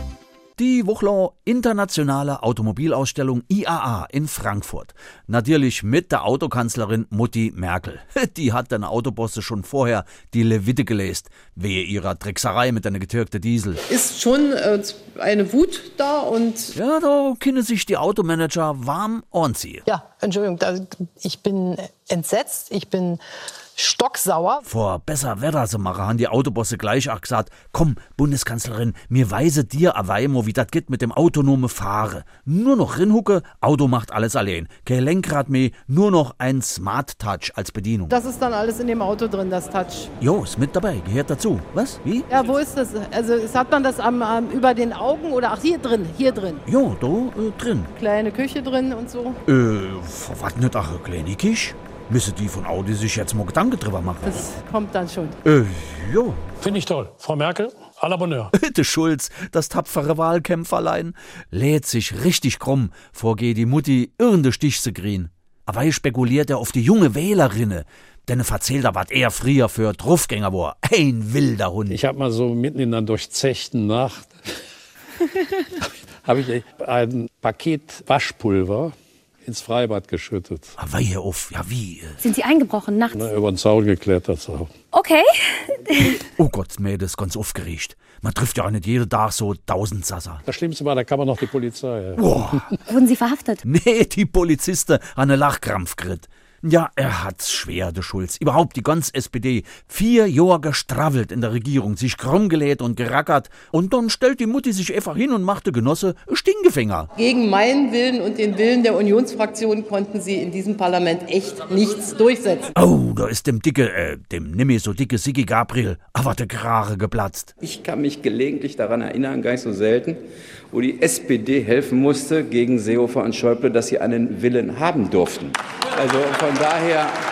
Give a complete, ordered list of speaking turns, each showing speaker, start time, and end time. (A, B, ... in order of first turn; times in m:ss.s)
0:00.6-0:13.8 A
0:13.9-0:16.7 B
0:16.7-0:19.8 A
0:19.8-0:23.2 C
0:23.8-0:24.6 C
0:24.6-0:38.2 A
0:38.1-0:40.1 B
0:40.2-0:42.3 A
0:42.3-0:46.6 B
0:46.6-0:47.9 A
0:48.0-0:49.4 B
0:49.5-0:54.4 A
0:54.3-0:55.4 B
0:55.4-0:56.4 A
0:56.6-0:58.5 D
0:58.5-1:12.0 A
1:11.9-1:14.4 D
1:15.6-1:20.8 D
1:20.8-1:22.2 A
1:22.2-1:23.2 E
1:23.1-1:24.7 D
1:24.9-1:26.2 E
1:26.4-1:30.4 A
1:30.4-1:32.7 D
1:32.2-1:32.7 A
1:32.9-1:33.6 E
1:33.6-1:47.1 A
1:47.2-1:52.7 B
1:52.8-1:57.5 A
2:00.8-2:02.0 F
2:04.3-2:05.5 F